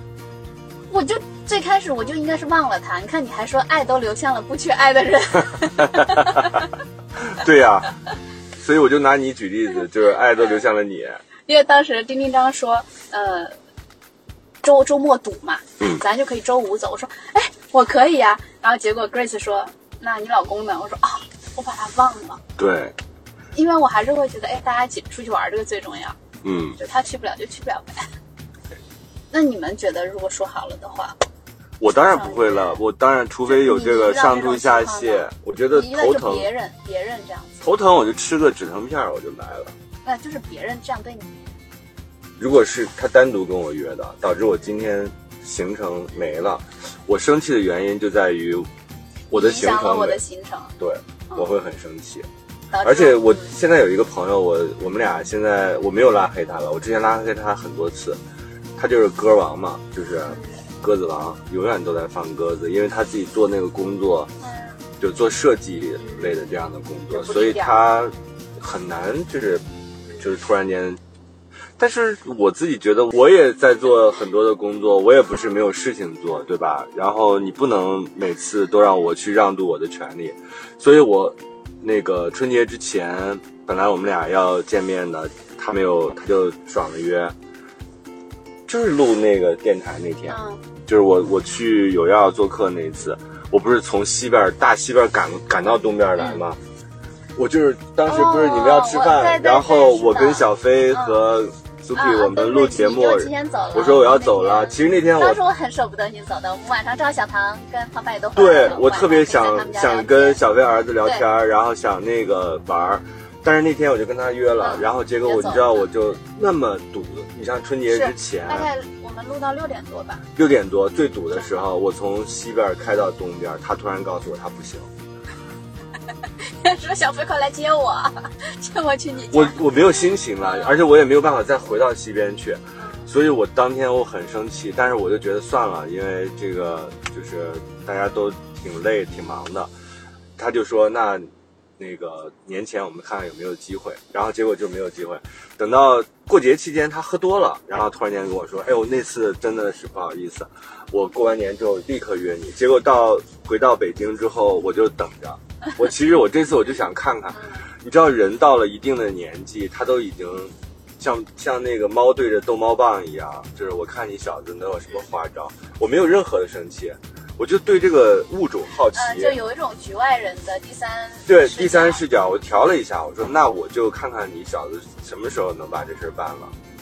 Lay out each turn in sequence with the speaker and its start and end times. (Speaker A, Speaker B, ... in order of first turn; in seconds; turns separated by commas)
Speaker A: 0.9-6.7, Speaker B: 5.8-6.5, Speaker B: 7.2-7.9, Speaker B: 8.6-11.2, Speaker A: 11.4-13.5, Speaker A: 14.6-22.4, Speaker B: 22.6-22.9, Speaker A: 23.5-26.2, Speaker B: 26.4-26.8, Speaker A: 26.8-28.1, Speaker A: 29.3-31.2, Speaker B: 31.8-36.5, Speaker A: 31.9-32.8, Speaker A: 33.5-37.6, Speaker B: 37.6-39.7, Speaker A: 40.0-41.5, Speaker B: 42.4-48.7, Speaker B: 49.3-50.2, Speaker A: 49.3-50.7, Speaker B: 50.8-52.3, Speaker A: 52.7-53.5, Speaker B: 52.8-58.2, Speaker B: 58.8-64.3, Speaker A: 60.3-60.5, Speaker A: 64.4-64.7, Speaker B: 65.0-69.6, Speaker A: 66.0-66.3, Speaker A: 67.1-67.8, Speaker B: 70.2-71.0, Speaker B: 71.8-87.3, Speaker B: 88.7-96.6, Speaker A: 90.3-90.6, Speaker B: 97.4-105.4, Speaker A: 98.0-101.2, Speaker A: 102.0-110.4, Speaker B: 108.3-118.7, Speaker A: 114.6-115.9, Speaker A: 117.9-120.3, Speaker B: 120.4-124.9, Speaker A: 126.5-130.8, Speaker B: 129.3-139.7, Speaker A: 132.8-133.1, Speaker B: 140.4-169.4, Speaker A: 157.3-157.7, Speaker A: 168.9-172.0, Speaker B: 171.3-176.5